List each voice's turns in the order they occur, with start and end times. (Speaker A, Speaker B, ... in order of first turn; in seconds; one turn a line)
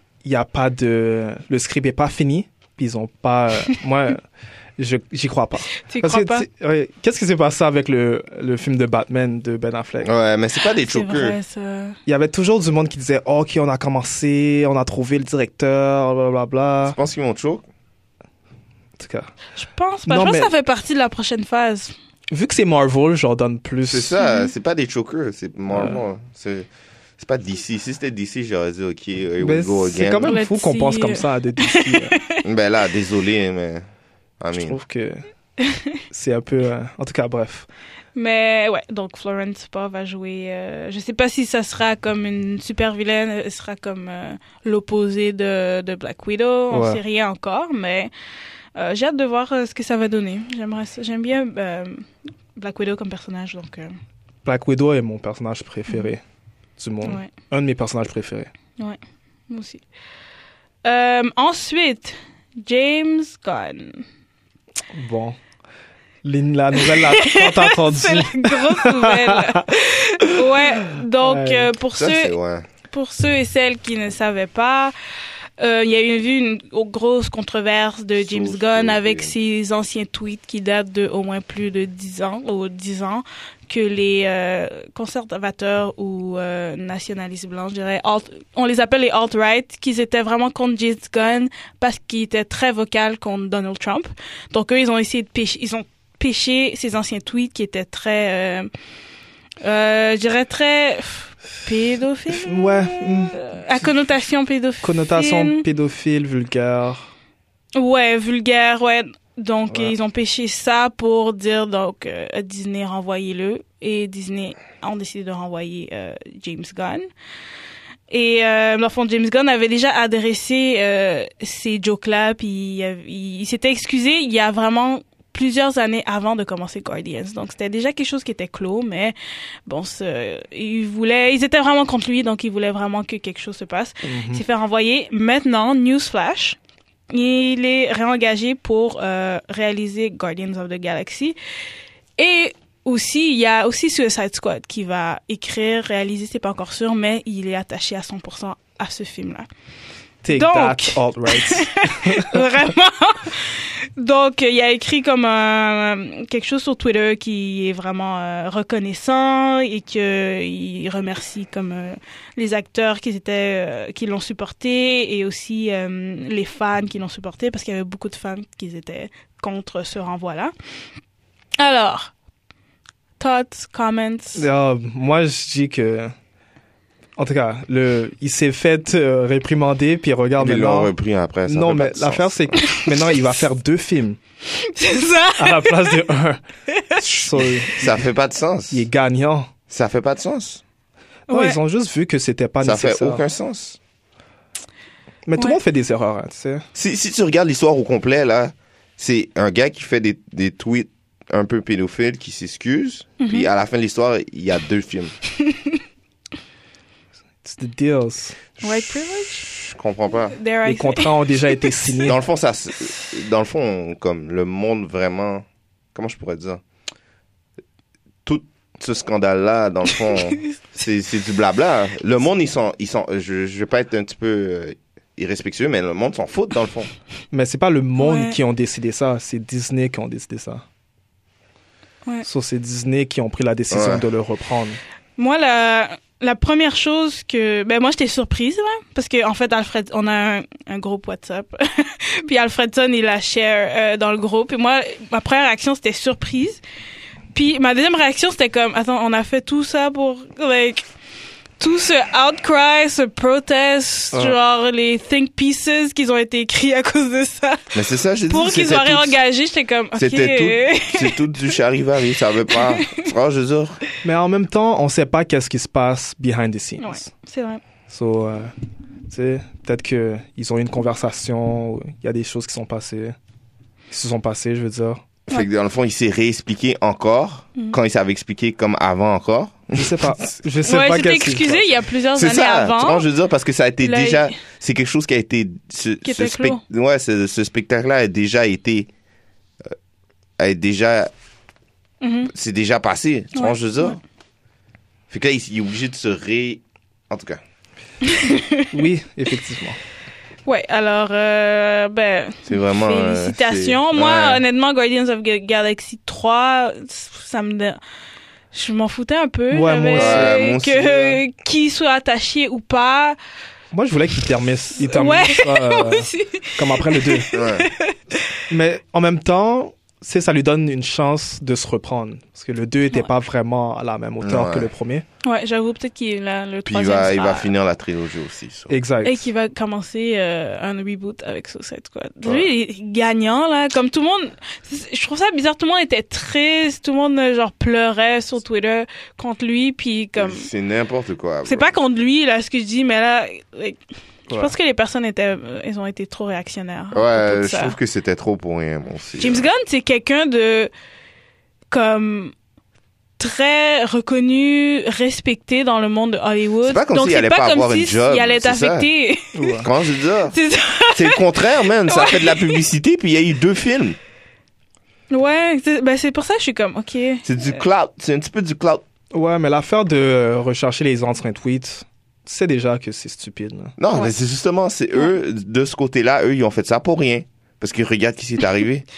Speaker A: 0.2-4.2
Speaker A: 4.8-10.1
Speaker B: 5.8-6.5
Speaker C: 10.0-11.4
Speaker B: 10.7-12.0
Speaker A: 12.1-17.0
Speaker C: 16.9-17.7
Speaker A: 19.0-19.3
Speaker B: 19.6-21.9
Speaker A: 20.1-20.5
Speaker A: 22.3-24.1
Speaker C: 23.9-26.7
Speaker B: 24.2-24.5
Speaker A: 25.7-26.0
Speaker C: 27.2-30.4
Speaker A: 29.4-32.2
Speaker B: 30.2-32.4
Speaker C: 32.4-33.9
Speaker C: 34.4-34.8
Speaker A: 34.5-35.2
Speaker B: 35.6-36.0
Speaker A: 36.1-37.7
Speaker B: 38.1-48.1
Speaker A: 46.7-47.0
Speaker B: 48.8-54.0
Speaker A: 54.5-56.2
Speaker B: 55.9-56.1
Speaker A: 56.8-58.5
Speaker B: 57.0-57.3
Speaker B: 58.8-59.8
Speaker B: 60.8-64.1
Speaker A: 64.9-65.4
Speaker A: 66.2-69.7
Speaker B: 66.8-72.3
Speaker A: 70.2-71.7
Speaker C: 72.0-72.7
Speaker B: 72.9-74.9
Speaker B: 75.6-98.7
Speaker C: 78.2-79.3
Speaker B: 99.6-105.7
Speaker A: 102.3-103.4
Speaker A: 104.8-107.1
Speaker B: 107.8-117.1
Speaker B: 118.1-136.6
Speaker A: 134.1-134.4
Speaker B: 137.1-141.4
Speaker B: 142.2-149.5
Speaker A: 150.2-152.4
Speaker B: 150.3-170.5
Speaker B: 171.6-172.1
Speaker B: 173.2-174.5
Speaker A: 174.3-176.1
Speaker A: 177.2-180.9
Speaker C: 180.4-182.7
Speaker A: 181.5-184.2
Speaker B: 182.6-183.2
Speaker B: 184.5-186.0
Speaker A: 185.4-186.4
Speaker B: 186.7-187.0
Speaker A: 187.0-187.9
Speaker C: 187.0-188.9
Speaker A: 188.7-189.5
Speaker C: 189.7-190.6
Speaker B: 191.3-191.6
Speaker A: 191.3-193.2
Speaker C: 192.6-193.8
Speaker A: 195.3-196.7
Speaker C: 196.8-205.2
Speaker B: 203.2-203.5
Speaker B: 205.4-205.8
Speaker A: 207.4-208.4
Speaker C: 208.6-210.4
Speaker B: 208.6-209.5
Speaker B: 210.3-212.0
Speaker A: 210.7-212.2
Speaker C: 212.0-216.6
Speaker C: 218.2-226.9
Speaker B: 220.1-220.6
Speaker A: 227.3-230.6
Speaker B: 228.0-228.4
Speaker A: 232.2-234.8
Speaker C: 233.7-234.1
Speaker B: 235.2-246.6
Speaker B: 247.3-250.9
Speaker B: 251.6-261.6
Speaker C: 257.7-259.2
Speaker C: 259.9-263.8
Speaker B: 262.5-263.0
Speaker A: 264.0-267.1
Speaker B: 266.8-267.6
Speaker A: 267.9-268.5
Speaker A: 269.1-273.2
Speaker A: 273.9-275.0
Speaker C: 275.3-280.2
Speaker A: 279.8-281.7
Speaker B: 280.6-283.1
Speaker C: 282.1-288.9
Speaker B: 283.8-284.4
Speaker B: 286.1-286.6
Speaker C: 290.4-291.1
Speaker B: 292.0-292.3
Speaker C: 292.3-294.0
Speaker B: 293.4-294.0
Speaker C: 295.1-297.4
Speaker B: 298.0-298.7
Speaker A: 298.7-299.8
Speaker B: 300.4-307.8
Speaker C: 302.5-304.4
Speaker B: 308.5-313.2
Speaker A: 309.5-310.3
Speaker C: 309.9-311.2
Speaker A: 313.7-317.3
Speaker B: 314.8-318.3
Speaker C: 317.3-317.7
Speaker A: 318.5-325.1
Speaker C: 324.2-324.7
Speaker B: 325.2-327.5
Speaker C: 326.7-328.7
Speaker A: 328.7-329.3
Speaker B: 329.0-340.5
Speaker C: 332.2-332.5
Speaker C: 340.1-341.7
Speaker B: 341.4-343.8
Speaker B: 344.3-347.8
Speaker C: 346.9-349.5
Speaker B: 349.2-350.7
Speaker B: 351.7-352.3
Speaker B: 353.2-362.6
Speaker C: 356.6-358.9
Speaker A: 359.3-359.7
Speaker C: 359.6-360.4
Speaker C: 360.9-364.0
Speaker B: 365.1-367.6
Speaker C: 367.2-368.8
Speaker A: 369.1-373.7
Speaker C: 373.8-378.9